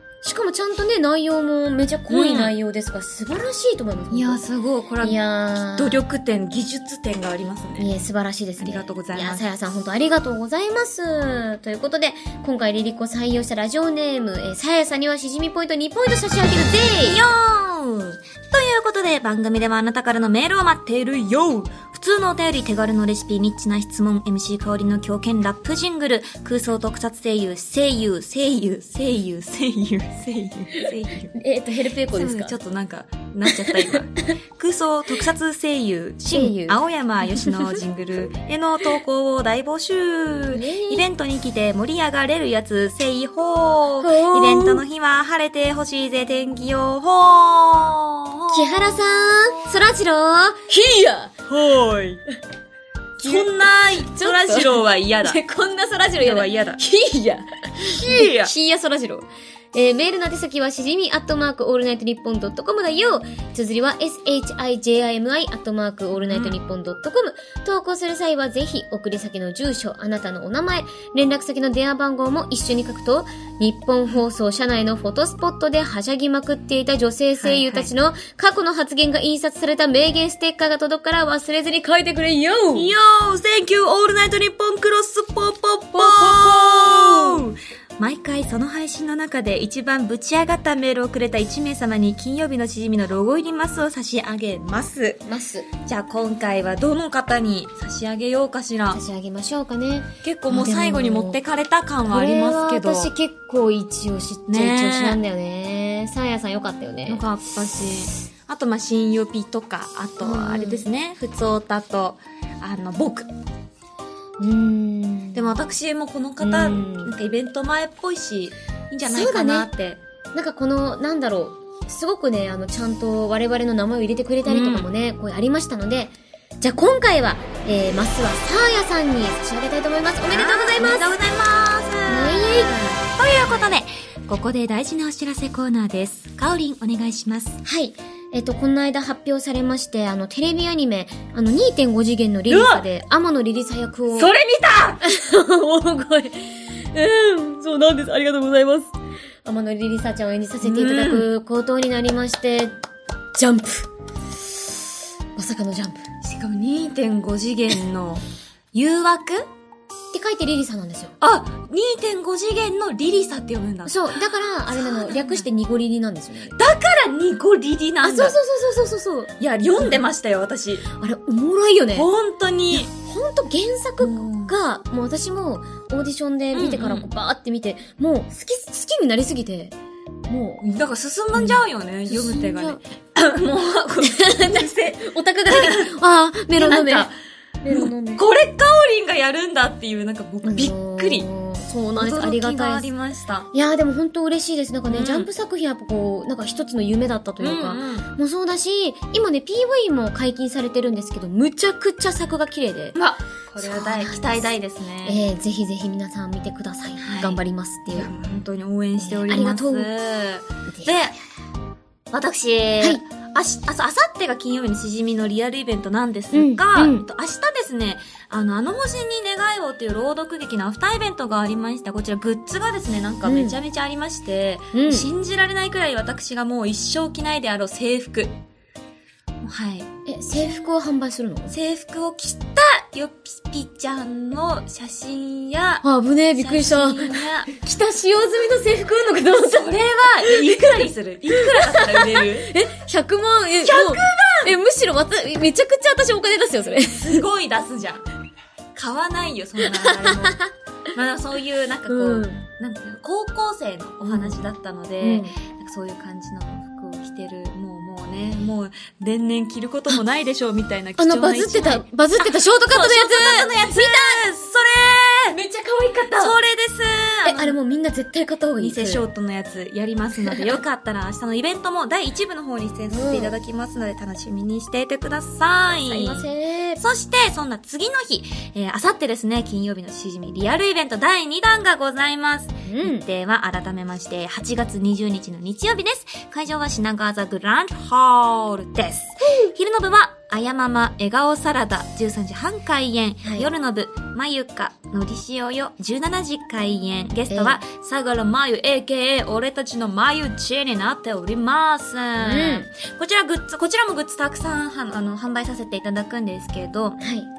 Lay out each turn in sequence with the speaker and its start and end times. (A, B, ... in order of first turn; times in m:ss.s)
0:00.2-0:04.4 A
0:02.1-0:02.5 B
0:04.1-0:07.9 B
0:05.0-0:06.0 A
0:07.8-0:17.2 A
0:08.6-0:09.4 B
0:17.0-0:31.3 B
0:31.3-0:32.6 A
0:32.1-0:48.7 B
0:33.5-0:34.0 A
0:36.3-0:37.8 A
0:40.5-0:41.0 A
0:44.0-0:44.8 A
0:48.5-0:51.3 A
0:51.5-0:52.2 B
0:53.2-0:55.4 B
0:53.2-1:22.9 A
0:56.2-0:56.8 B
0:57.8-0:58.5 B
1:06.2-1:06.5 B
1:17.4-1:17.9 B
1:22.7-1:35.2 B
1:25.9-1:27.4 A
1:35.2-1:35.7 A
1:35.8-1:39.0 B
1:38.9-1:41.4 A
1:40.2-1:43.1 B
1:42.0-1:47.2 A
1:44.5-1:45.2 B
1:47.1-1:53.3 B
1:50.2-1:50.8 A
1:54.4-1:55.6 A
1:55.3-2:00.0 B
1:56.4-1:57.1 A
1:59.0-1:59.7 A
2:00.3-2:11.1 A
2:04.4-2:04.8 B
2:10.3-2:17.6 B
2:12.1-2:12.8 A
2:13.4-2:13.8 A
2:17.6-2:24.3 A
2:22.5-2:22.8 B
2:24.1-2:25.0 B
2:25.0-2:28.9 A
2:29.4-2:32.8 A
2:30.6-2:31.2 B
2:33.3-2:33.9 A
2:35.3-2:36.0 A
2:36.2-2:39.5 B
2:40.1-2:41.2 A
2:41.2-2:44.0 B
2:43.8-2:46.6 A
2:44.7-2:45.4 B
2:46.6-2:48.4 B
2:48.0-2:50.0 A
2:49.4-2:50.8 B
2:50.9-2:52.1 A
2:51.9-2:52.9 B
2:52.7-2:59.7 A
2:54.0-2:54.5 B
2:56.5-2:57.1 B
3:00.3-3:00.6 A
3:00.6-3:05.9 B
3:01.4-3:02.8 A
3:04.0-3:07.1 A
3:06.6-3:07.1 B
3:07.6-3:08.2 A
3:07.7-3:11.3 B
3:10.4-3:12.9 A
3:12.0-3:13.5 B
3:13.5-3:23.0 A
3:14.9-3:15.3 B
3:17.4-3:18.1 B
3:22.9-3:25.2 B
3:23.6-3:28.1 A
3:27.0-3:27.4 B
3:27.9-3:31.2 B
3:29.0-3:29.9 A
3:30.7-3:31.0 A
3:32.1-3:48.3 B
3:36.3-3:37.0 A
3:43.2-3:43.6 A
3:44.7-3:45.1 A
3:49.4-3:49.9 B
3:50.0-3:51.5 A
3:51.5-3:55.8 B
3:55.8-4:07.2 A
3:56.4-3:57.5 B
3:59.4-4:02.5 B
4:03.6-4:04.5 B
4:06.8-4:08.0 B
4:08.7-4:25.4 B
4:09.6-4:10.5 A
4:11.9-4:12.4 A
4:14.0-4:14.4 A
4:15.0-4:15.3 A
4:21.0-4:24.2 A
4:25.3-4:26.4 A
4:26.1-4:27.6 B
4:27.2-4:29.0 A
4:28.6-5:07.0 B
4:32.9-4:33.3 A
4:35.7-4:36.8 A
4:42.6-4:43.1 A
4:49.2-4:49.5 A
4:53.2-4:53.5 A
4:57.3-4:57.6 A
5:02.2-5:02.7 A
5:07.0-5:07.3 A